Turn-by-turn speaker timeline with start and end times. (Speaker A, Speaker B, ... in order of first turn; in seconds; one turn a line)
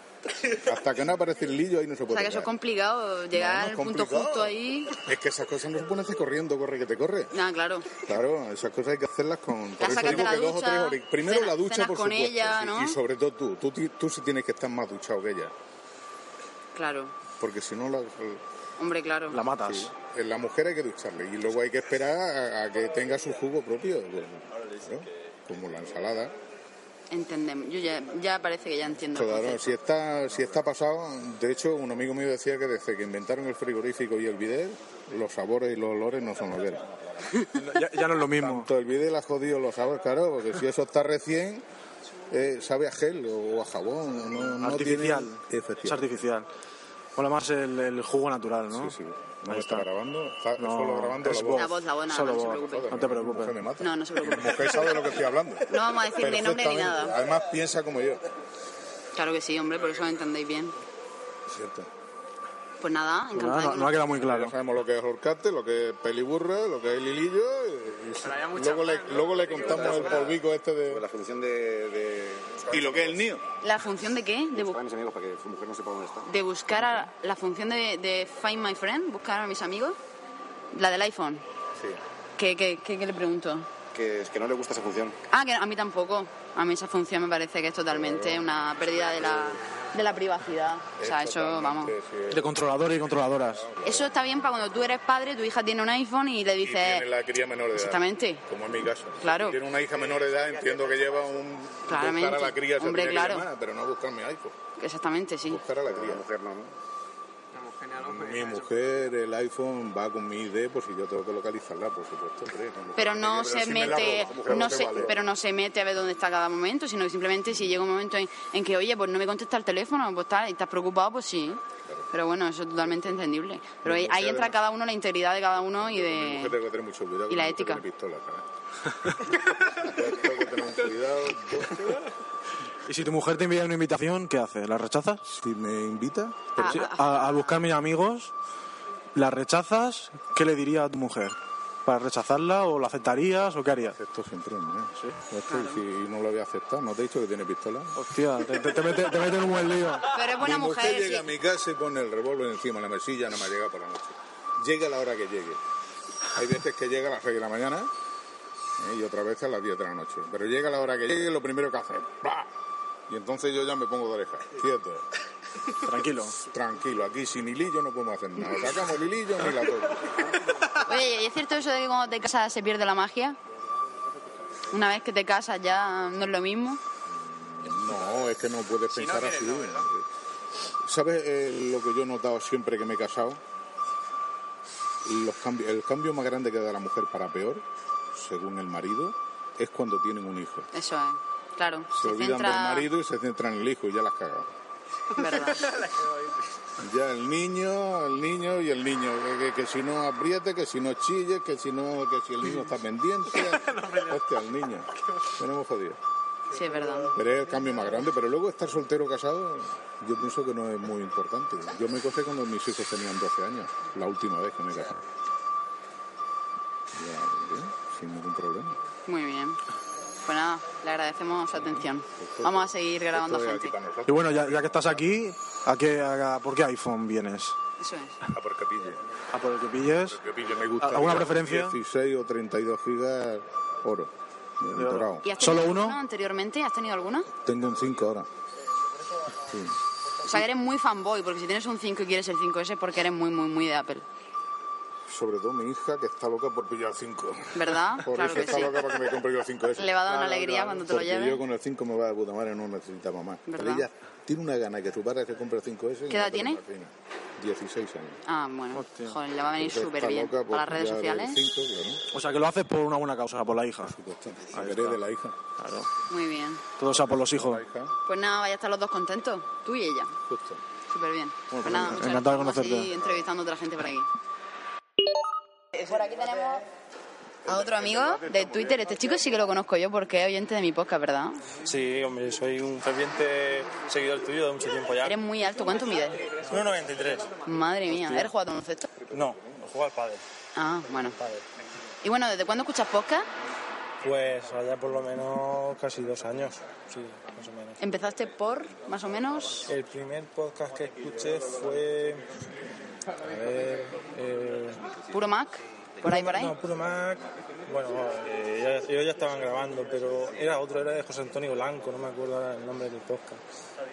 Speaker A: 0.5-2.5
Speaker B: 2.1-5.0
Speaker A: 3.3-7.3
Speaker B: 7.3-7.9
Speaker A: 8.0-15.5
Speaker B: 9.8-13.0
Speaker B: 16.7-17.1
Speaker A: 17.4-18.4
Speaker B: 18.8-19.4
Speaker C: 19.3-19.9
Speaker A: 19.6-26.3
Speaker B: 27.1-29.7
Speaker A: 29.1-36.9
Speaker C: 37.5-38.7
Speaker A: 38.1-41.6
Speaker A: 42.3-46.0
Speaker C: 44.6-46.5
Speaker C: 47.1-48.9
Speaker A: 48.7-51.7
Speaker C: 49.5-49.8
Speaker C: 50.6-53.6
Speaker B: 51.5-52.9
Speaker A: 52.5-58.2
Speaker B: 53.8-55.0
Speaker B: 55.7-57.2
Speaker B: 59.1-60.7
Speaker A: 61.5-61.9
Speaker B: 62.8-64.0
Speaker C: 63.3-64.5
Speaker A: 64.2-71.0
Speaker D: 69.8-70.2
Speaker D: 70.9-73.2
Speaker A: 72.7-73.4
Speaker B: 73.6-74.8
Speaker D: 74.5-76.3
Speaker B: 76.2-80.0
Speaker B: 80.7-81.4
Speaker B: 82.4-83.7
Speaker D: 83.9-85.2
Speaker B: 85.3-91.9
Speaker A: 87.9-88.6
Speaker A: 89.2-89.6
Speaker A: 91.0-92.5
Speaker C: 92.3-93.7
Speaker A: 93.7-94.1
Speaker B: 93.8-97.1
Speaker A: 96.6-104.5
Speaker B: 97.8-98.4
Speaker B: 99.2-99.6
Speaker B: 101.9-103.5
Speaker B: 104.8-105.6
Speaker A: 105.5-106.2
Speaker D: 105.8-106.7
Speaker A: 107.8-115.0
Speaker B: 113.0-126.5
Speaker D: 113.2-115.2
Speaker A: 123.8-124.5
Speaker A: 125.8-128.4
Speaker B: 127.3-127.8
Speaker A: 129.7-132.0
Speaker C: 132.9-135.3
Speaker A: 135.3-136.8
Speaker B: 136.6-137.0
Speaker C: 136.7-138.3
Speaker C: 139.1-144.0
Speaker A: 143.9-147.9
Speaker B: 145.5-145.8
Speaker C: 148.0-150.1
Speaker B: 150.1-151.3
Speaker A: 150.3-155.6
Speaker A: 156.3-157.9
Speaker A: 158.8-162.5
Speaker A: 163.1-165.0
Speaker C: 165.8-166.4
Speaker A: 166.4-170.2
Speaker B: 170.8-173.4
Speaker B: 174.7-176.8
Speaker A: 177.1-180.0
Speaker A: 180.8-183.4
Speaker A: 185.0-190.7
Speaker B: 190.7-192.9
Speaker A: 191.9-194.5
Speaker B: 195.1-195.7
Speaker A: 196.8-206.0
Speaker B: 206.5-207.1
Speaker A: 207.1-215.0
Speaker A: 216.9-218.8
Speaker B: 219.1-219.6
Speaker B: 220.2-223.7
Speaker A: 222.2-225.0
Speaker C: 224.1-227.5
Speaker B: 227.8-228.2
Speaker A: 228.3-229.0
Speaker C: 229.3-230.2
Speaker A: 230.1-235.2
Speaker C: 230.8-231.7
Speaker C: 234.7-236.0
Speaker B: 235.2-237.3
Speaker A: 237.4-238.3
Speaker A: 239.4-239.8
Speaker B: 240.2-244.0
Speaker A: 245.1-258.2
Speaker B: 247.5-248.8
Speaker B: 249.8-251.4
Speaker B: 253.5-253.9
Speaker B: 256.1-256.6
Speaker B: 258.2-261.4
Speaker C: 258.7-259.2
Speaker A: 259.6-262.0
Speaker C: 262.1-263.9
Speaker A: 263.8-265.4
Speaker C: 264.5-265.0
Speaker C: 265.6-265.9
Speaker B: 266.1-266.6
Speaker C: 266.8-267.6
Speaker A: 266.9-267.9
Speaker B: 268.1-270.1
Speaker A: 270.3-270.6
Speaker B: 270.9-274.1
Speaker C: 271.5-272.9
Speaker B: 275.7-276.6
Speaker B: 277.4-281.4
Speaker A: 277.5-278.5
Speaker E: 281.6-285.1
Speaker B: 285.0-286.2
Speaker E: 286.5-287.3
Speaker B: 287.4-288.9
Speaker E: 288.0-288.3
Speaker E: 289.1-290.2
Speaker B: 290.5-291.1
Speaker E: 291.0-291.4
Speaker B: 292.0-293.3
Speaker E: 294.0-297.8
Speaker B: 297.8-299.7
Speaker E: 299.7-302.2
Speaker E: 303.2-304.8
Speaker B: 305.1-306.5
Speaker E: 306.0-313.4